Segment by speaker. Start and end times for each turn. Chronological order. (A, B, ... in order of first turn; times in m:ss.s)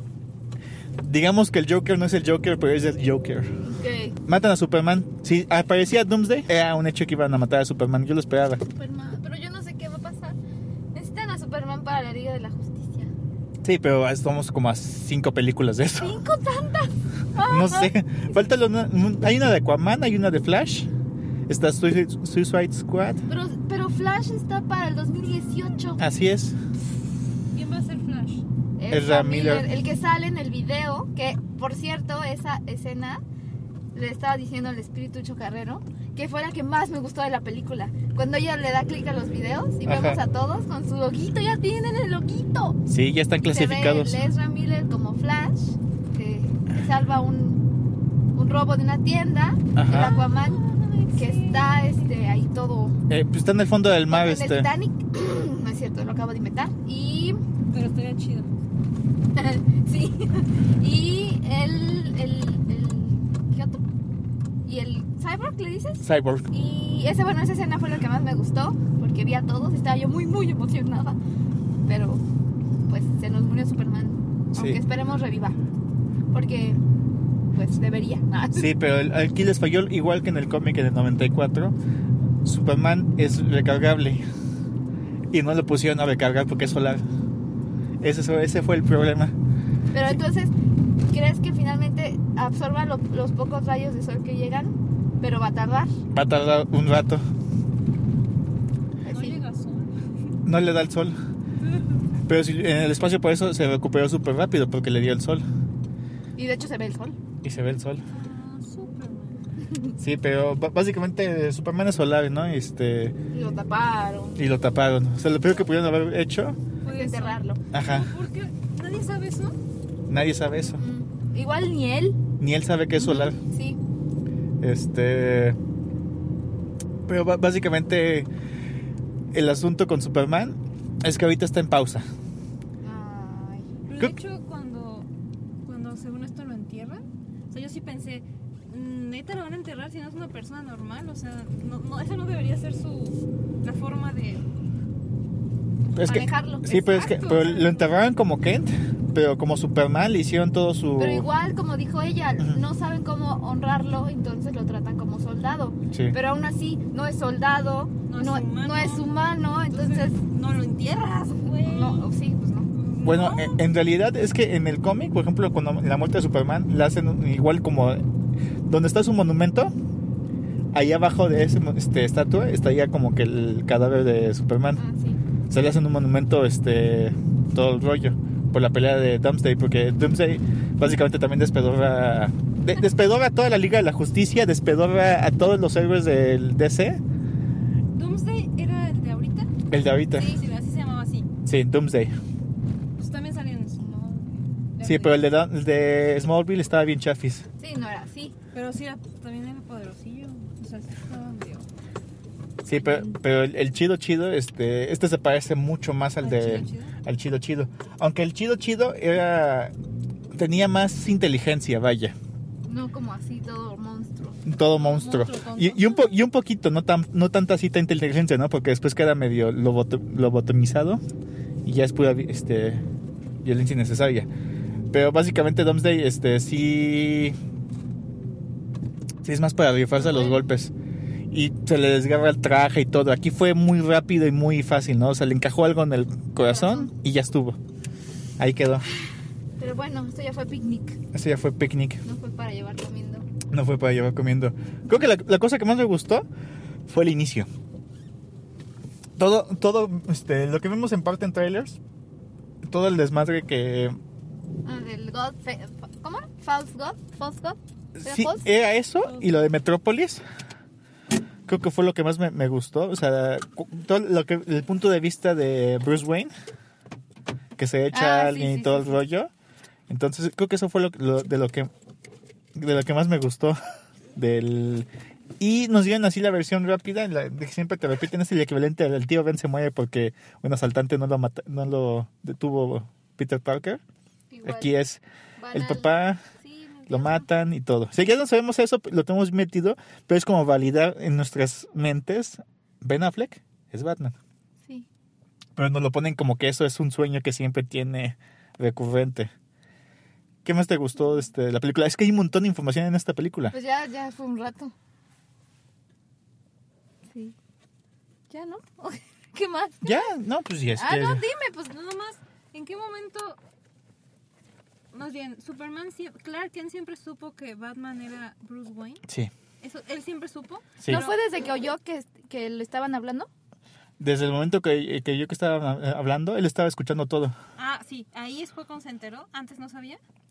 0:01.0-0:03.5 A
0:03.7-0:04.2 B
0:04.3-0:08.6 A
0:08.7-0:10.4 B
0:10.9-0:13.1 B
0:13.6-0:16.2 A
0:16.0-0:17.9 B
0:17.4-0:20.9 A
0:21.5-0:23.2 A
0:23.3-0:26.0 B
0:26.0-0:26.6 A
0:27.5-0:28.4 C
0:28.8-0:33.2 B
0:28.9-0:29.7 A
0:34.0-0:42.8 B
0:39.9-0:40.2 A
0:42.9-0:44.2 A
0:43.5-0:47.7 B
0:48.4-0:50.6 B
0:49.8-0:50.1 A
0:49.9-0:52.1 C
0:51.1-0:53.0 B
0:53.1-0:54.7 A
0:54.1-0:57.4 B
0:57.7-0:58.6 C
0:59.4-1:03.8 B
1:04.6-1:11.2 B
1:06.0-1:06.5 A
1:11.9-1:12.2 B
1:12.9-1:15.6 B
1:14.6-1:14.8 A
1:16.3-1:16.8 B
1:17.5-1:18.7 B
1:18.6-1:21.8 A
1:22.4-1:24.2 A
1:25.3-1:27.0 A
1:28.0-1:29.4 A
1:29.9-1:30.5 B
1:31.1-1:35.9 B
1:36.1-1:37.2 A
1:39.0-1:39.4 B
1:39.1-1:39.9 C
1:40.5-1:41.2 A
1:41.7-1:42.0 C
1:42.3-1:45.4 A
1:46.4-1:47.2 B
1:47.4-1:48.0 A
1:48.1-1:49.6 C
1:50.0-1:53.2 A
1:53.3-1:54.5 B
1:54.4-1:56.6 A
1:56.8-1:59.6 C
1:56.9-1:57.6 B
1:57.7-1:58.1 A
2:00.1-2:00.8 A
2:00.8-2:02.2 B
2:02.4-2:03.4 A
2:03.0-2:03.8 B
2:04.6-2:05.6 A
2:07.1-2:08.3 A
2:09.3-2:12.0 A
2:12.8-2:13.8 B
2:13.9-2:15.1 C
2:15.6-2:24.4 C
2:25.9-2:31.3 A
2:26.0-2:27.1 B
2:26.8-2:27.9 C
2:31.0-2:40.2 B
2:35.9-2:36.2 A
2:38.1-2:39.2 C
2:39.7-2:42.1 C
2:41.5-2:42.7 B
2:42.7-2:43.6 C
2:43.0-2:48.0 A
2:48.7-2:49.7 A
2:50.7-2:54.8 A
2:54.8-2:55.2 B
2:55.5-3:07.0 A
3:07.9-3:09.5 C
3:09.7-3:10.4 A
3:10.1-3:11.3 C
3:11.5-3:12.1 A
3:13.0-3:15.3 C
3:14.8-3:17.5 A
3:17.6-3:18.4 B
3:18.5-3:21.7 C
3:22.6-3:29.7 A
3:22.8-3:23.1 B
3:26.2-3:27.0 C
3:30.3-3:32.2 A
3:32.7-3:34.4 B
3:34.4-3:41.0 A
3:34.8-3:36.2 C
3:41.6-3:42.9 A
3:43.4-3:44.3 A
3:44.9-3:47.4 A
3:49.2-3:50.7 A
3:50.0-3:50.4 B
3:51.3-3:57.6 A
3:56.5-3:56.9 B
3:58.4-3:58.8 A
3:59.6-4:01.0 B
4:01.1-4:02.0 A
4:02.0-4:03.3 B
4:03.5-4:06.3 A
4:06.9-4:07.5 A
4:09.2-4:11.8 A
4:12.7-4:14.0 A
4:14.6-4:18.5 B
4:18.0-4:20.2 A
4:19.0-4:19.4 C
4:21.5-4:26.3 A
4:27.6-4:29.3 A
4:27.9-4:29.0 B
4:29.9-4:31.7 A
4:32.6-4:33.6 A
4:34.2-4:34.9 A
4:35.4-4:43.8 A
4:44.3-4:44.7 B
4:44.4-4:46.2 A
4:45.4-4:47.3 B
4:46.9-4:54.2 A
4:55.6-4:59.3 A
5:00.4-5:03.5 A
5:03.5-5:04.7 B
5:08.3-5:10.1 B
5:09.8-5:11.2 A
5:10.8-5:11.7 B
5:11.5-5:13.4 C
5:14.9-5:19.0 C
5:19.6-5:21.2 C
5:20.9-5:23.3 B
5:24.0-5:27.3 A
5:27.6-5:30.0 C